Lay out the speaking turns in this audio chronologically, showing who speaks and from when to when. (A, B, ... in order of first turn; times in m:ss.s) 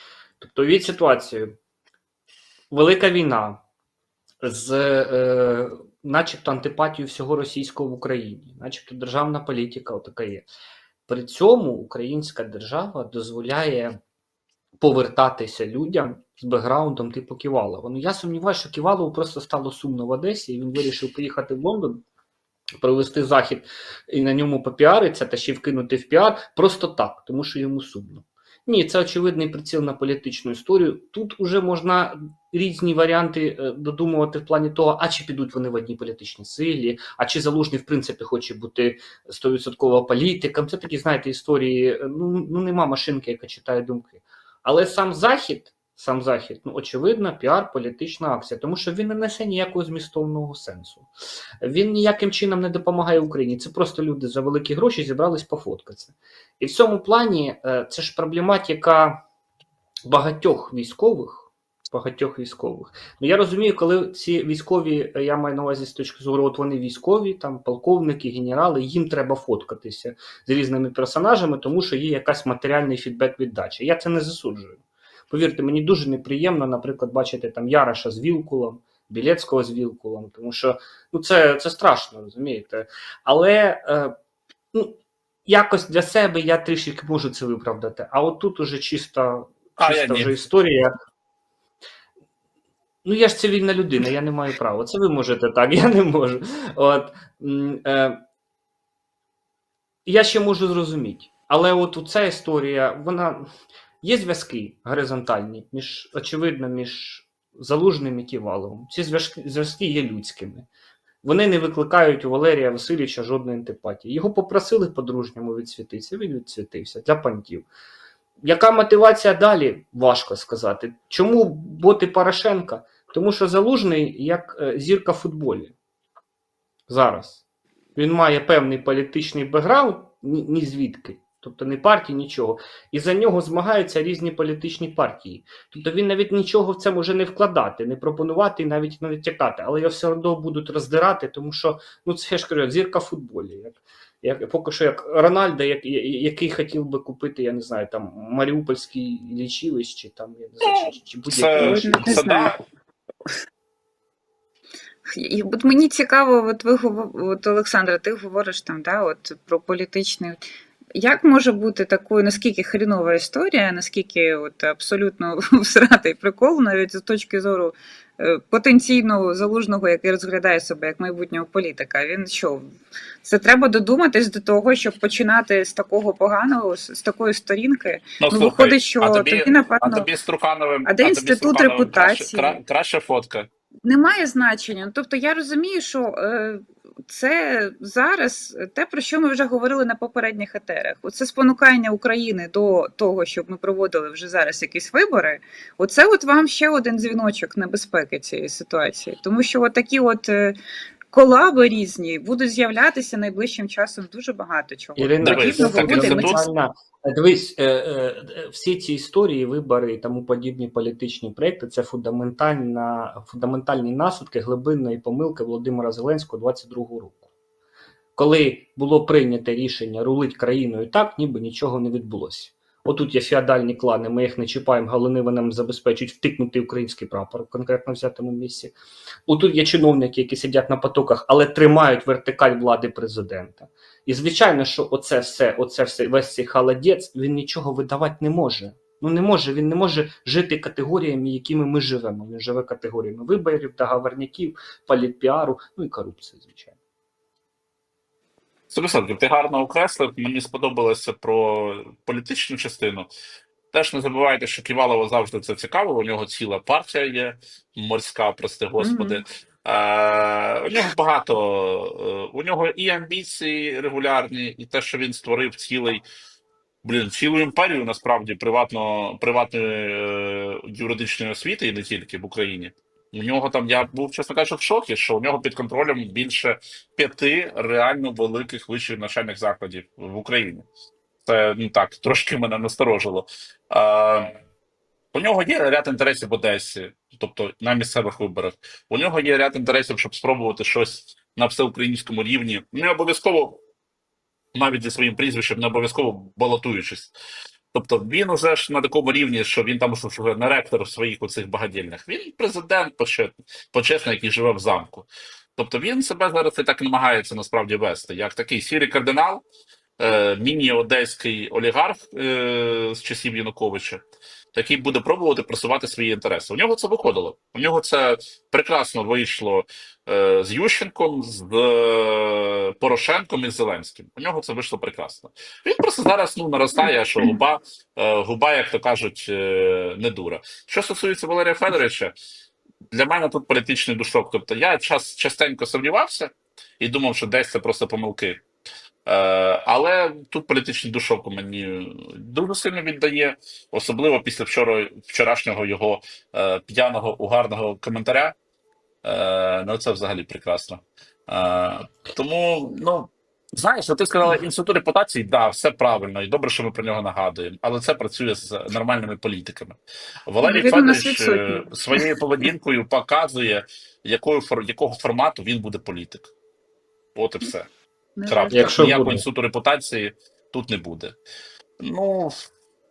0:00.4-0:01.6 A
0:02.7-0:03.6 A
0:04.4-0:10.5 A
0:11.1-0:14.0 A
0:14.8-0:22.0 A
0:22.8-0:51.1 A
0:51.6-0:59.2 A
1:00.0-1:24.1 A
1:24.7-1:30.9 A
1:29.8-1:30.4 B
1:33.0-1:38.2 A
1:40.0-1:43.5 A
1:44.0-1:50.6 A
1:51.2-1:57.7 A
1:58.4-2:05.7 A
2:06.9-2:07.4 A
2:08.0-2:32.3 A
2:30.6-2:32.6 B
2:31.6-2:32.6 C
2:35.1-2:40.4 C
2:40.9-3:00.1 C
2:58.2-3:03.5 B
3:00.8-3:02.6 C
3:03.8-3:20.6 C
3:21.1-3:26.5 C
3:25.0-3:37.3 A
3:25.2-3:26.4 B
3:38.2-3:48.8 A
3:49.3-4:06.7 A
4:08.7-4:13.1 B
4:13.7-4:26.0 B
4:18.8-4:19.2 C
4:26.8-4:40.6 B
4:41.2-4:44.3 B
4:45.1-4:53.6 B
4:54.5-4:57.1 B
4:57.7-5:09.4 B
5:10.0-5:14.0 B
5:14.5-5:32.1 B
5:32.9-5:38.4 B
5:39.0-5:48.3 B
5:49.0-6:06.3 B
6:00.4-6:02.1 C
6:07.1-6:07.7 B
6:08.2-6:08.8 C
6:08.3-6:11.1 B
6:08.5-6:09.2 A
6:11.8-6:12.5 B